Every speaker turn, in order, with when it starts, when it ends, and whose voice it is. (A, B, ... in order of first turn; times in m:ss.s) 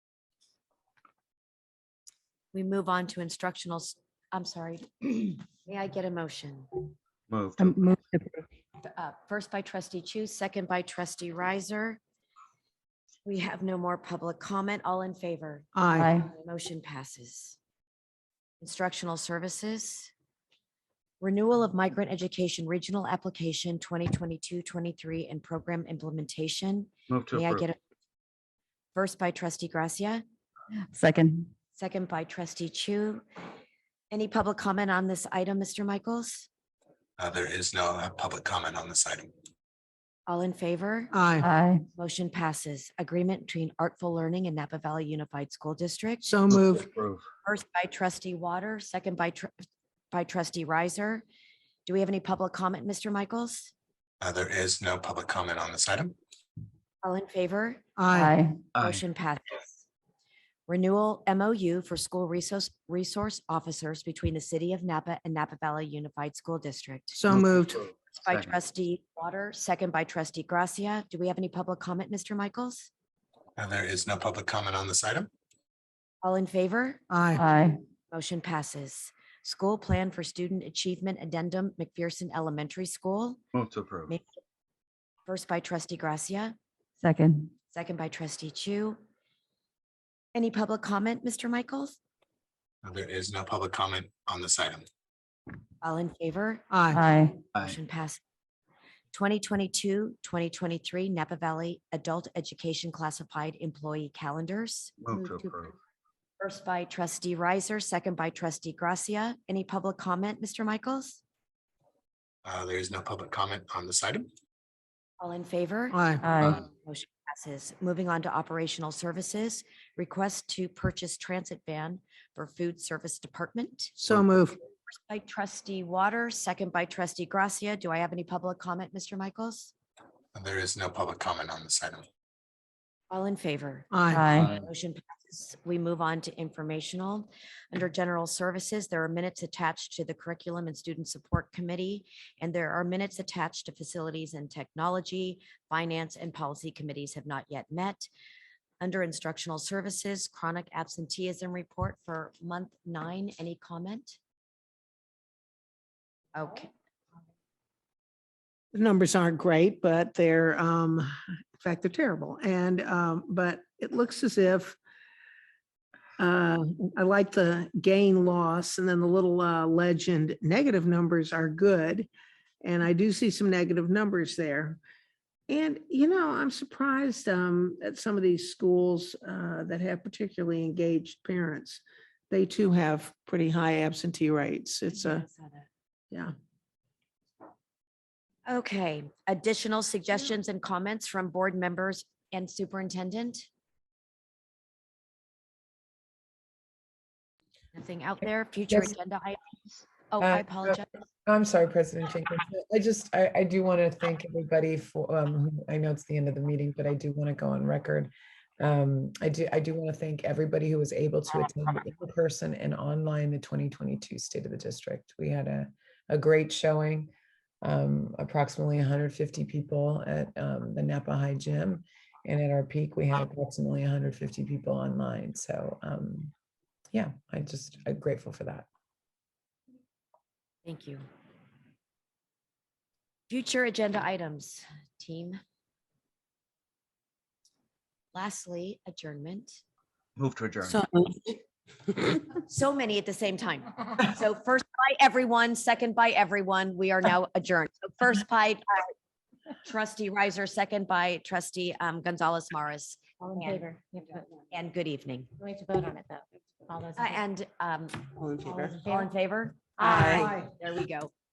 0:02.5-0:06.7 A
0:07.3-0:07.9 B
0:07.6-0:08.4 C
0:08.8-0:12.0 A
0:13.3-0:17.6 A
0:15.8-0:16.1 D
0:16.0-0:16.3 C
0:18.6-0:20.1 A
0:21.2-0:27.8 A
0:27.1-0:27.7 B
0:29.0-0:30.2 A
0:30.9-0:31.5 C
0:31.8-0:33.2 A
0:34.1-0:36.5 A
0:37.2-0:39.3 E
0:40.3-0:41.1 A
0:41.1-0:41.5 D
0:41.4-0:41.8 C
0:42.0-0:46.4 A
0:46.3-0:46.9 D
0:46.5-0:47.2 B
0:47.4-0:49.5 A
0:50.1-0:51.2 A
0:51.9-0:53.7 A
0:54.2-0:56.2 E
0:57.0-0:57.8 A
0:58.0-0:58.4 D
0:58.1-0:58.6 C
0:58.8-0:59.0 B
0:58.8-0:59.8 A
1:00.7-1:07.2 A
1:07.1-1:07.8 D
1:08.2-1:12.9 A
1:08.3-1:08.6 B
1:13.6-1:15.3 E
1:16.2-1:17.0 A
1:17.1-1:17.5 D
1:17.4-1:17.8 C
1:18.1-1:23.4 A
1:23.5-1:24.2 B
1:25.3-1:26.6 A
1:27.0-1:27.5 C
1:27.7-1:29.0 A
1:30.4-1:32.0 A
1:32.8-1:34.8 E
1:35.8-1:36.7 A
1:36.7-1:37.0 D
1:36.9-1:37.4 C
1:37.5-1:38.2 A
1:39.1-1:45.6 A
1:45.0-1:45.7 B
1:46.4-1:51.2 A
1:52.4-1:54.3 E
1:55.2-2:04.0 A
1:55.9-1:56.3 D
1:56.2-1:56.6 C
2:04.0-2:04.6 D
2:04.9-2:09.7 A
2:10.3-2:12.0 E
2:13.1-2:28.1 A
2:13.9-2:14.3 D
2:14.1-2:14.5 C
2:28.8-2:34.2 A
2:36.4-2:36.7 A
2:38.7-2:44.8 D
2:46.2-2:52.1 D
2:52.6-2:54.8 D
2:55.5-3:05.2 D
3:04.9-3:05.7 A
3:08.5-3:13.5 A
3:17.7-3:21.0 A
3:20.2-3:37.1 F
3:37.6-3:46.3 F
3:46.9-3:48.7 F
3:50.6-3:51.0 A
3:53.3-3:55.4 A
3:58.1-3:59.6 A
4:00.2-4:00.8 B
4:00.6-4:01.4 D
4:02.4-4:08.9 A
4:09.6-4:13.7 A
4:13.2-4:14.3 G
4:14.5-4:15.3 A
4:15.4-4:17.2 G
4:17.0-4:18.1 A
4:18.2-4:18.8 D
4:18.4-4:19.1 G
4:18.8-4:21.1 A
4:19.8-4:20.4 G
4:19.8-4:20.3 C
4:20.1-4:20.5 D